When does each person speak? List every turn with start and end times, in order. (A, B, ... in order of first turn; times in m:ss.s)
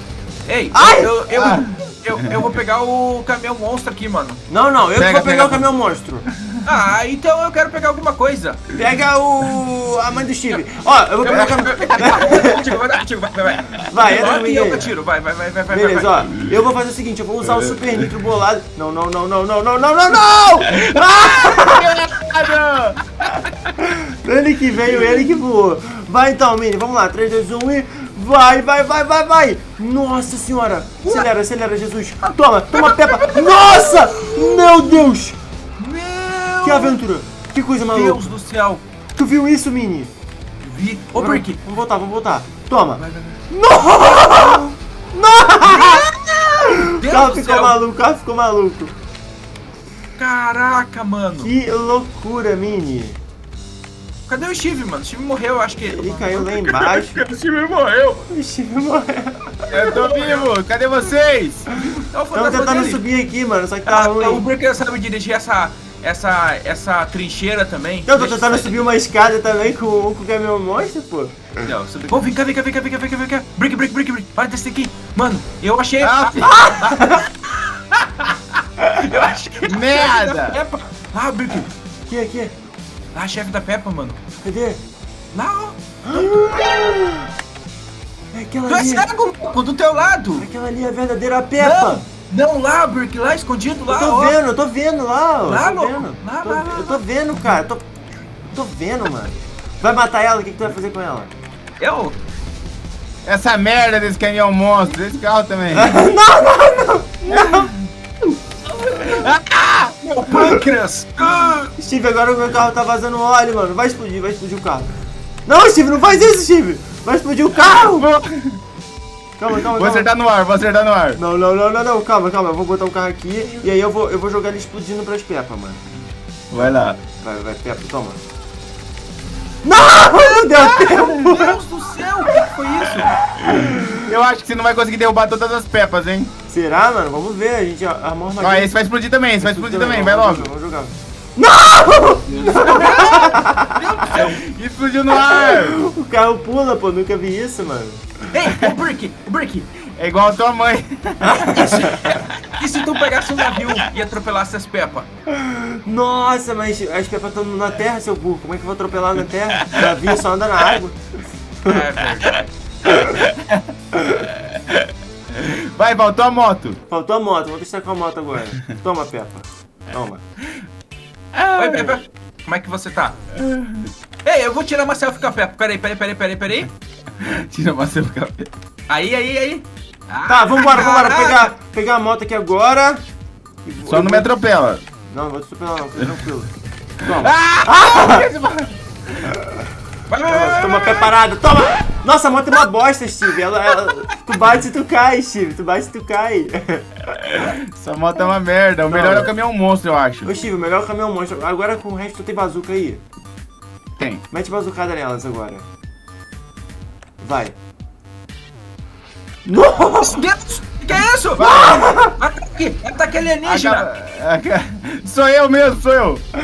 0:00.4-0:04.4 A
0:00.7-0:01.1 B
0:01.3-0:02.4 C
0:04.5-0:06.2 B
0:04.9-0:05.6 C
0:06.3-0:06.6 C
0:06.6-0:08.6 A
0:08.7-0:12.8 B
0:11.2-0:16.3 A
0:11.3-0:12.3 C
0:13.9-0:14.9 B
0:15.7-0:21.9 B
0:17.5-0:18.1 C
0:20.7-0:23.3 C
0:23.8-0:35.4 B
0:32.7-0:34.7 A
0:35.8-0:37.0 A
0:36.6-0:38.3 B
0:37.9-0:38.8 A
0:39.2-0:40.1 B
0:40.6-0:41.6 A
0:41.1-0:48.9 B
0:43.0-0:43.4 A
0:44.2-0:44.6 A
0:45.7-0:46.0 A
0:46.8-0:47.8 A
0:50.2-0:51.5 A
0:51.4-0:53.2 B
0:54.3-0:58.3 A
0:55.8-0:57.2 B
0:58.3-1:00.0 B
0:59.7-1:01.7 C
0:59.9-1:00.5 A
1:01.7-1:04.4 B
1:02.1-1:03.0 A
1:03.8-1:08.8 A
1:08.1-1:11.7 B
1:11.6-1:17.1 A
1:16.0-1:16.5 C
1:16.4-1:17.3 B
1:19.0-1:21.7 A
1:19.6-1:20.6 C
1:22.1-1:22.5 B
1:23.1-1:24.2 A
1:24.4-1:24.8 B
1:25.3-1:25.8 A
1:26.0-1:27.2 B
1:28.3-1:29.1 B
1:28.7-1:30.4 A
1:30.4-1:32.0 B
1:31.6-1:34.4 A
1:33.9-1:37.8 B
1:35.4-1:37.0 A
1:38.5-1:41.3 B
1:41.8-1:42.2 A
1:43.2-1:46.0 C
1:45.7-1:47.7 B
1:47.3-1:47.7 C
1:48.8-1:49.3 A
1:49.0-1:50.0 C
1:50.0-1:51.7 A
1:50.3-1:50.6 B
1:51.8-1:54.9 B
1:55.4-1:58.1 B
1:58.0-1:58.6 C
1:59.4-2:00.1 B
1:59.7-2:01.2 C
2:01.2-2:05.8 B
2:06.5-2:07.0 C
2:07.2-2:08.2 B
2:09.6-2:11.6 B
2:10.5-2:11.0 C
2:11.0-2:13.2 A
2:13.2-2:16.3 C
2:13.6-2:14.0 B
2:16.5-2:18.7 B
2:18.4-2:20.5 C
2:19.4-2:23.8 B
2:22.4-2:24.4 A
2:24.1-2:25.8 C
2:25.2-2:28.0 B
2:28.3-2:29.7 A
2:28.4-2:28.7 C
2:30.0-2:31.9 C
2:31.2-2:32.1 B
2:31.5-2:35.1 A
2:33.5-2:33.8 C
2:35.4-2:41.0 B
2:41.6-2:42.5 A
2:43.2-2:43.6 C
2:44.4-2:46.8 C
2:46.9-2:50.2 B
2:51.3-2:52.0 C
2:51.6-2:53.2 A
2:53.3-2:53.9 C
2:54.2-2:56.7 A
2:57.2-2:58.5 C
2:58.9-3:01.5 A
3:00.2-3:03.0 B
3:03.6-3:04.3 B
3:03.9-3:04.8 C
3:05.1-3:06.5 B
3:07.0-3:08.3 B
3:07.2-3:09.2 C
3:09.2-3:09.6 B
3:10.1-3:11.1 A
3:10.3-3:16.9 B
3:17.2-3:20.3 C
3:18.9-3:19.3 B
3:20.2-3:23.0 B
3:24.3-3:25.6 B
3:27.2-3:27.5 B
3:29.4-3:30.2 B
3:30.0-3:33.9 A
3:31.3-3:31.9 C
3:31.5-3:32.2 B
3:33.4-3:36.2 C